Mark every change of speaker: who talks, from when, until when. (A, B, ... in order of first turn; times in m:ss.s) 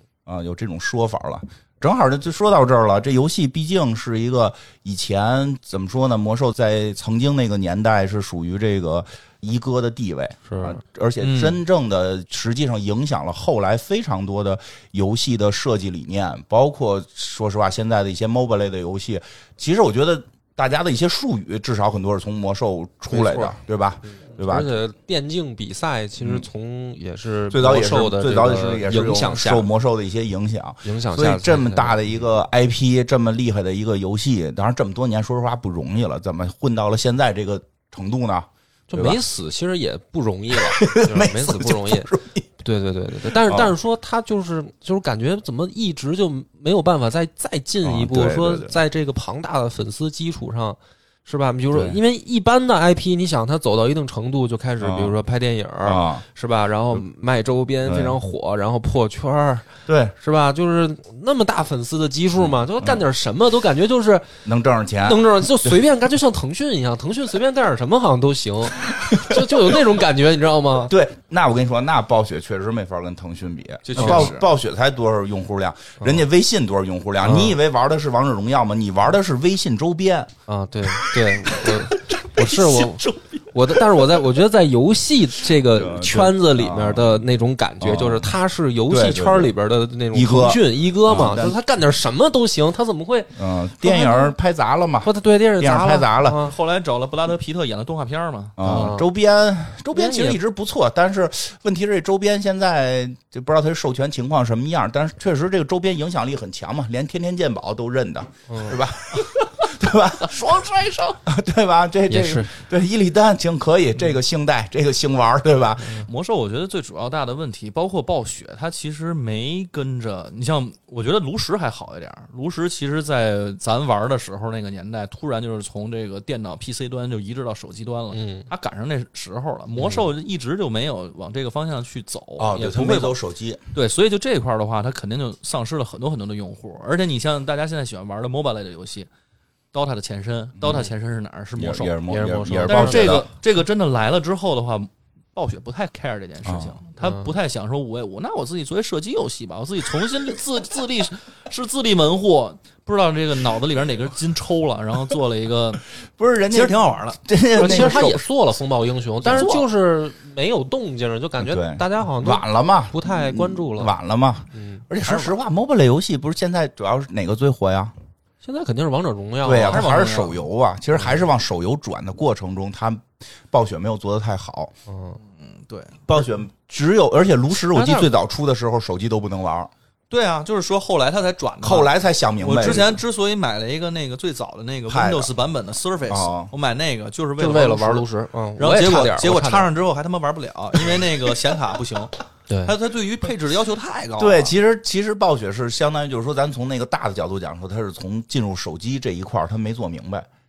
0:00.2-0:24.7 A
0:10.5-0:10.8 B
0:11.2-0:11.6 C
0:23.1-0:23.6 B
0:24.3-0:29.7 B
0:26.2-0:26.5 A
0:27.5-0:39.2 A
0:30.8-0:32.0 B
0:38.9-0:42.1 B
0:40.5-0:42.5 A
0:42.6-1:04.3 B
0:43.2-0:43.7 A
0:47.8-0:48.7 A
0:51.7-0:52.0 A
0:54.8-0:55.1 A
0:55.8-0:56.2 A
0:57.8-0:58.1 A
0:59.9-1:00.1 A
1:02.4-1:03.0 A
1:04.4-1:05.8 A
1:05.0-1:10.9 B
1:08.9-1:09.6 A
1:10.9-1:20.3 A
1:13.8-1:14.4 C
1:14.0-1:14.3 B
1:17.2-1:17.5 B
1:20.5-1:34.3 B
1:22.2-1:23.8 C
1:25.6-1:27.2 A
1:27.8-1:28.3 A
1:28.9-1:29.5 A
1:30.1-1:31.6 A
1:33.4-1:36.4 A
1:35.0-1:36.5 B
1:36.4-1:38.9 C
1:38.6-1:56.1 A
1:38.6-1:39.0 B
1:39.9-1:40.4 B
1:48.5-1:48.8 B
1:52.1-1:52.5 B
1:56.0-2:13.2 C
2:08.1-2:08.5 B
2:12.4-2:13.6 A
2:13.7-2:19.1 C
2:19.7-2:22.0 C
2:21.6-2:23.3 A
2:22.1-2:23.3 B
2:22.7-2:35.8 C
2:26.4-2:26.8 A
2:36.2-2:38.2 A
2:36.5-2:38.1 C
2:37.6-2:43.9 B
2:39.2-2:39.6 A
2:39.3-2:39.6 C
2:41.4-2:47.9 A
2:44.5-2:44.8 B
2:45.0-2:45.3 C
2:48.4-2:49.8 B
2:49.4-2:54.7 A
2:49.7-2:50.4 C
2:54.9-2:55.2 B
2:55.4-2:56.0 C
2:56.1-2:59.7 A
2:57.7-2:58.1 B
3:00.1-3:08.0 C
3:01.6-3:03.0 A
3:04.9-3:05.3 A
3:06.0-3:06.5 A
3:07.4-3:09.7 B
3:08.6-3:12.1 C
3:12.6-3:14.5 C
3:14.2-3:20.3 A